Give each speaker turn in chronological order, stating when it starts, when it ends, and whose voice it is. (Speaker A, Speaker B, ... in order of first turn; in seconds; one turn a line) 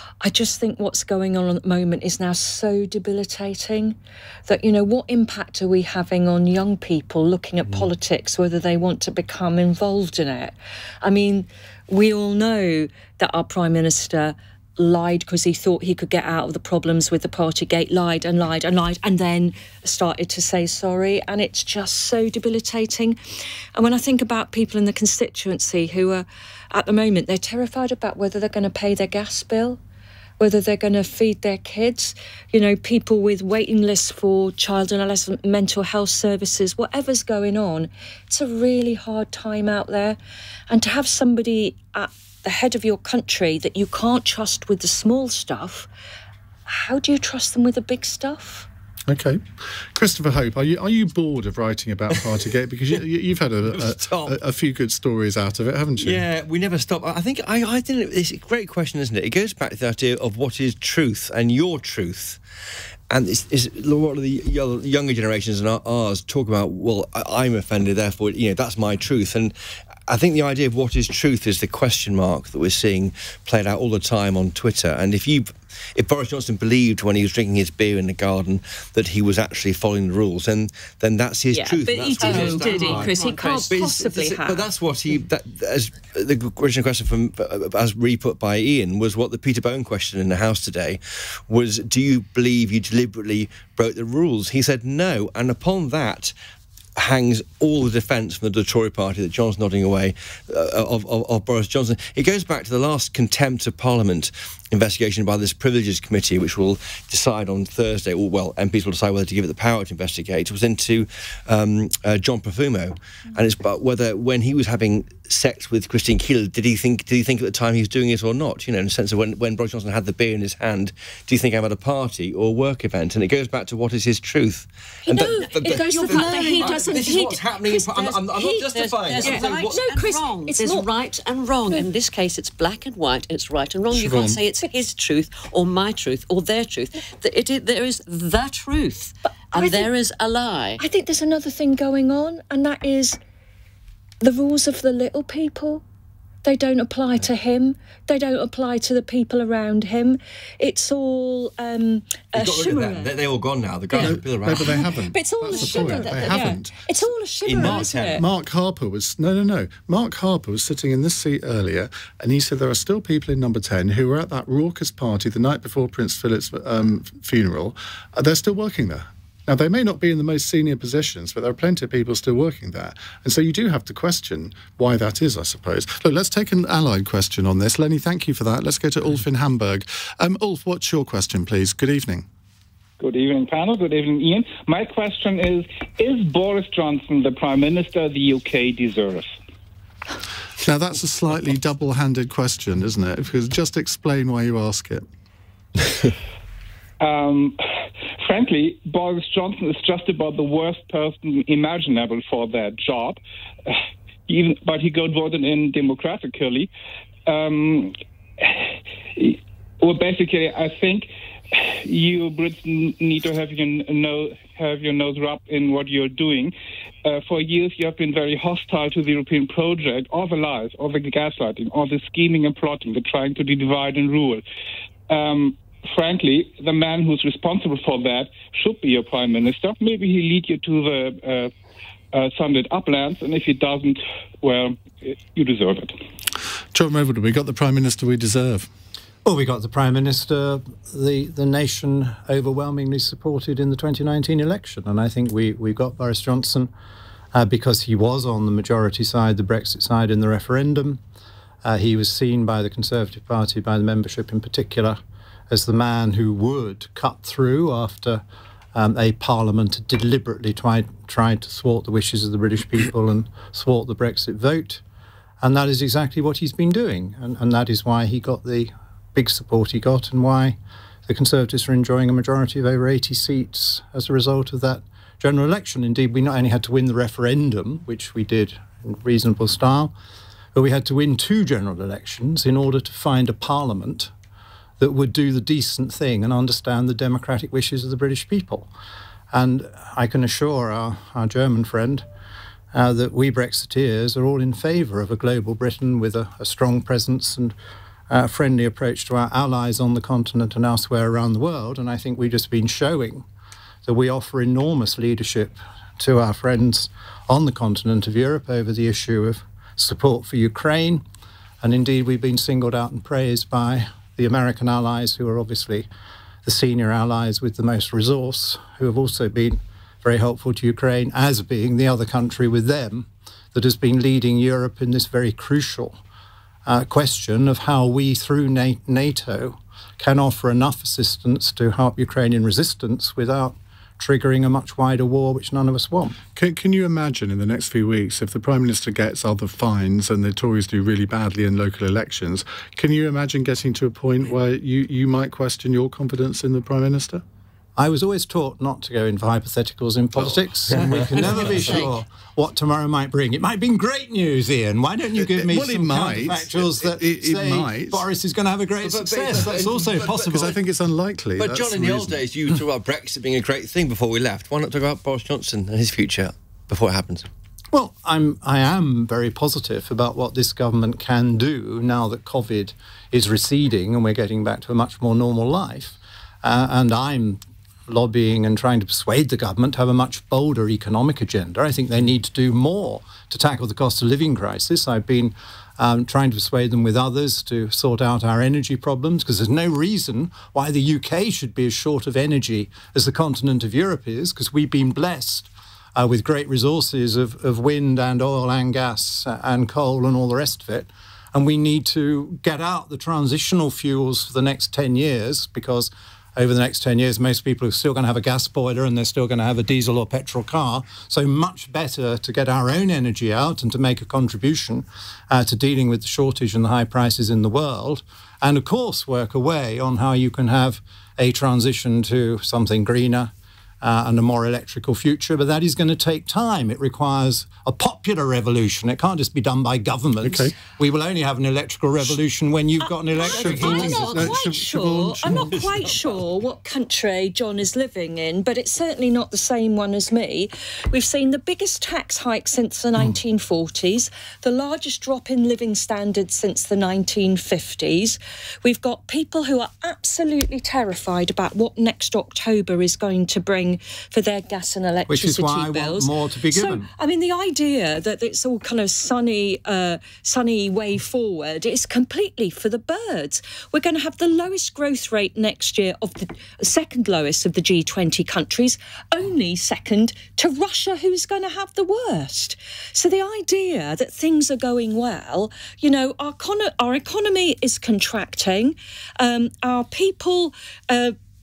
Speaker A: 0.2-23.2
Speaker A: 23.8-29.8
Speaker A: 30.4-40.2
Speaker A: 40.7-45.9
Speaker A: 46.7-48.7
Speaker B: 49.1-56.2
Speaker C: 53.9-54.4
Speaker C: 56.0-62.4
Speaker C: 63.1-69.5
Speaker C: 70.1-96.3
Speaker A: 81.5-84.7
Speaker D: 82.2-83.7
Speaker C: 97.0-129.8
Speaker A: 125.1-130.9
Speaker D: 125.7-127.3
Speaker D: 128.7-140.8
Speaker B: 133.9-134.4
Speaker A: 139.5-139.9
Speaker A: 140.8-143.2
Speaker A: 144.2-145.8
Speaker A: 146.4-153.1
Speaker C: 152.3-154.8
Speaker A: 153.9-158.2
Speaker B: 154.0-156.8
Speaker C: 155.5-156.5
Speaker C: 157.4-158.2
Speaker B: 157.6-182.3
Speaker E: 183.0-189.3
Speaker B: 190.6-195.1
Speaker E: 197.0-197.6
Speaker E: 198.2-203.8
Speaker E: 204.3-206.7
Speaker E: 207.3-208.6
Speaker E: 209.2-216.5
Speaker E: 217.1-224.4
Speaker E: 225.1-231.5
Speaker E: 232.1-236.0
Speaker B: 236.7-238.7
Speaker F: 239.2-246.7
Speaker F: 247.3-251.0
Speaker F: 251.6-255.0
Speaker F: 255.5-258.2
Speaker F: 258.8-264.8
Speaker F: 265.4-279.9
Speaker F: 280.6-284.1
Speaker F: 284.8-288.7
Speaker F: 289.3-292.1
Speaker F: 292.7-297.6
Speaker F: 298.1-303.3
Speaker F: 303.9-311.0
Speaker F: 311.6-315.9
Speaker F: 316.4-326.0
Speaker F: 326.7-336.2
Speaker B: 336.4-347.2
Speaker F: 347.8-360.5
Speaker C: 350.7-351.9
Speaker B: 355.2-358.0
Speaker C: 358.8-360.6
Speaker B: 360.3-362.2
Speaker C: 361.4-367.3
Speaker F: 367.7-434.3
Speaker B: 430.2-430.5
Speaker A: 433.1-481.1
Speaker B: 433.3-435.7
Speaker F: 455.1-456.9